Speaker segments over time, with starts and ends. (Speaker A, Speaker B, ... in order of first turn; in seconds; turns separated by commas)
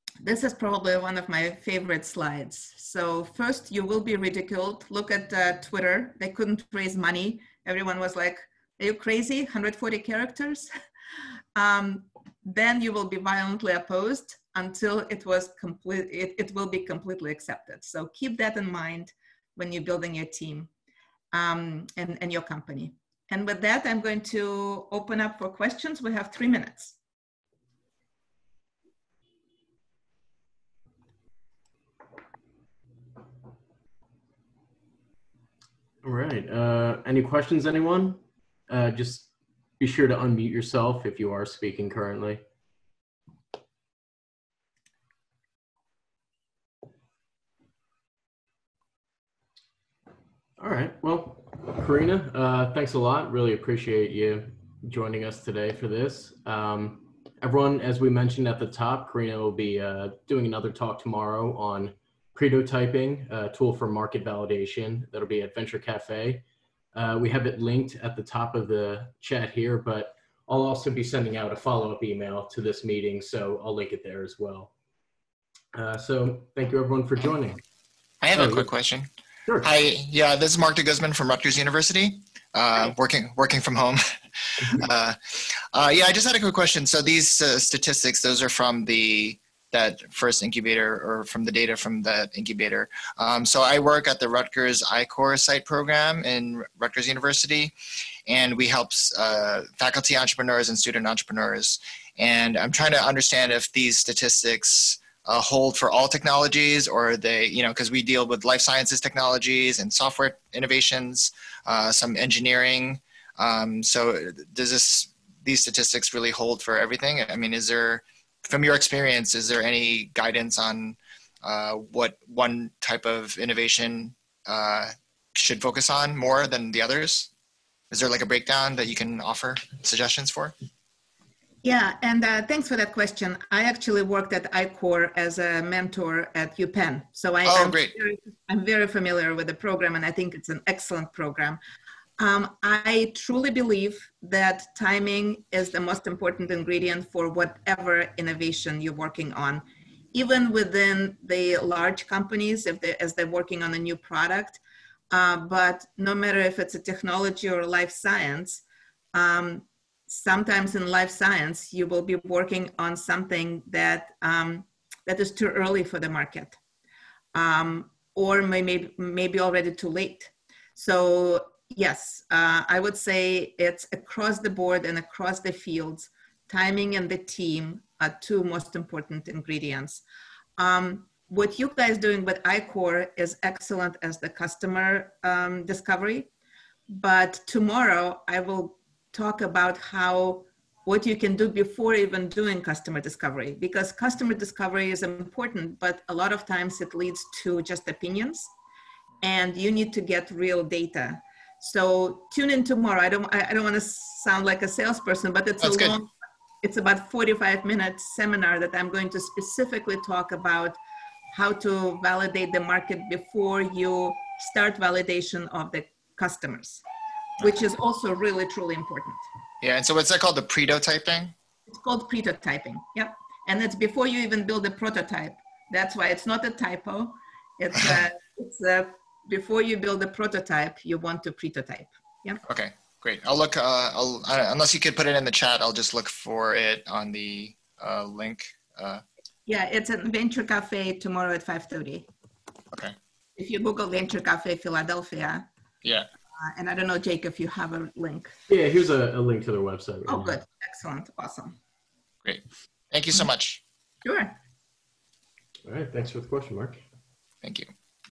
Speaker A: 0.2-10.7, Speaker A: 11.6-20.7, Speaker A: 21.3-27.0, Speaker B: 36.0-42.4, Speaker B: 50.6-74.7, Speaker B: 75.7-77.6, Speaker C: 78.2-79.1, Speaker B: 78.3-78.7, Speaker C: 79.6-84.0, Speaker C: 84.6-97.7, Speaker C: 98.3-127.3, Speaker C: 127.9-130.5, Speaker A: 131.6-141.6, Speaker C: 137.5-137.9, Speaker A: 142.2-154.6, Speaker A: 155.1-158.6, Speaker A: 159.1-166.6, Speaker A: 167.3-180.0, Speaker A: 180.6-186.3, Speaker A: 186.9-198.5, Speaker A: 199.2-206.1, Speaker C: 205.6-205.9, Speaker A: 206.6-210.8, Speaker A: 211.3-216.8, Speaker A: 217.4-219.2, Speaker C: 219.6-221.3, Speaker A: 221.7-232.4, Speaker C: 232.4-239.0, Speaker A: 239.5-242.1, Speaker A: 243.4-245.5, Speaker A: 246.4-248.4, Speaker B: 248.5-250.4, Speaker A: 250.1-251.6, Speaker C: 252.2-253.6, Speaker A: 254.1-254.3, Speaker B: 255.6-256.8, Speaker C: 257.4-257.7